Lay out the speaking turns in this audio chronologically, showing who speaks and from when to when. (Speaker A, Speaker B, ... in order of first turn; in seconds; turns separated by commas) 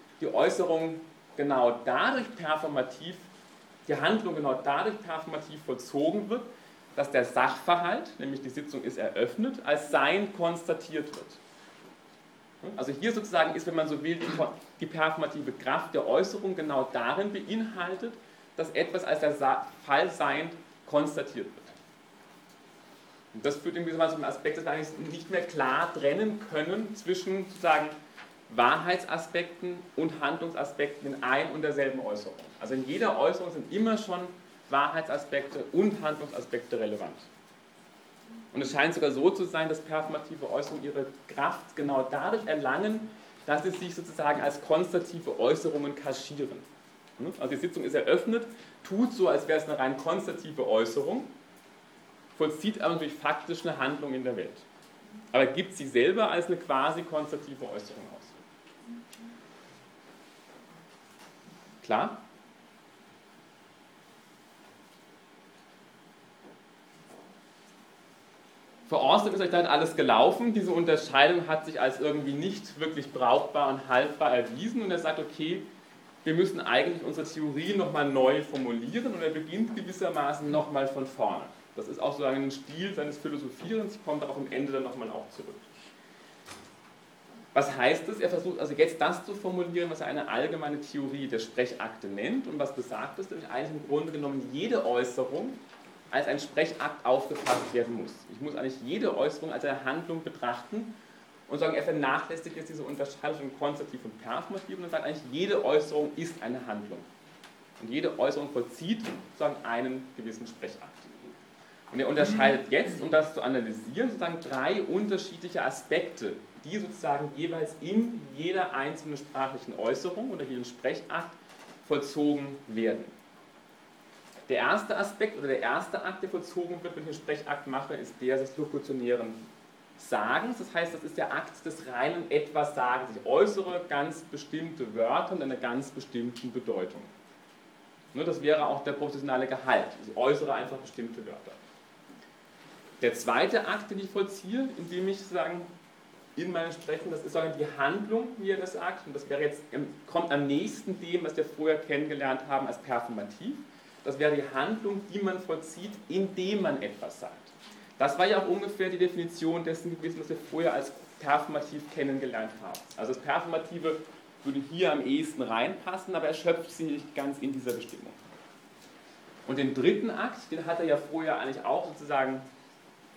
Speaker A: 0.2-3.3, Speaker A: 3.9-11.4, Speaker A: 12.6-21.7, Speaker A: 23.3-27.9, Speaker A: 28.5-37.3, Speaker A: 38.5-46.6, Speaker A: 47.2-51.3, Speaker A: 52.4-54.6, Speaker A: 55.3-58.4, Speaker A: 61.8-62.2, Speaker A: 68.9-75.7, Speaker A: 76.2-85.7, Speaker A: 87.5-95.6, Speaker A: 96.1-100.9, Speaker A: 101.5-107.1, Speaker A: 107.8-111.4, Speaker A: 111.9-123.1, Speaker A: 124.5-129.4, Speaker A: 130.0-137.1, Speaker A: 138.1-141.6, Speaker A: 143.0-145.7, Speaker A: 146.3-168.2, Speaker A: 169.5-172.5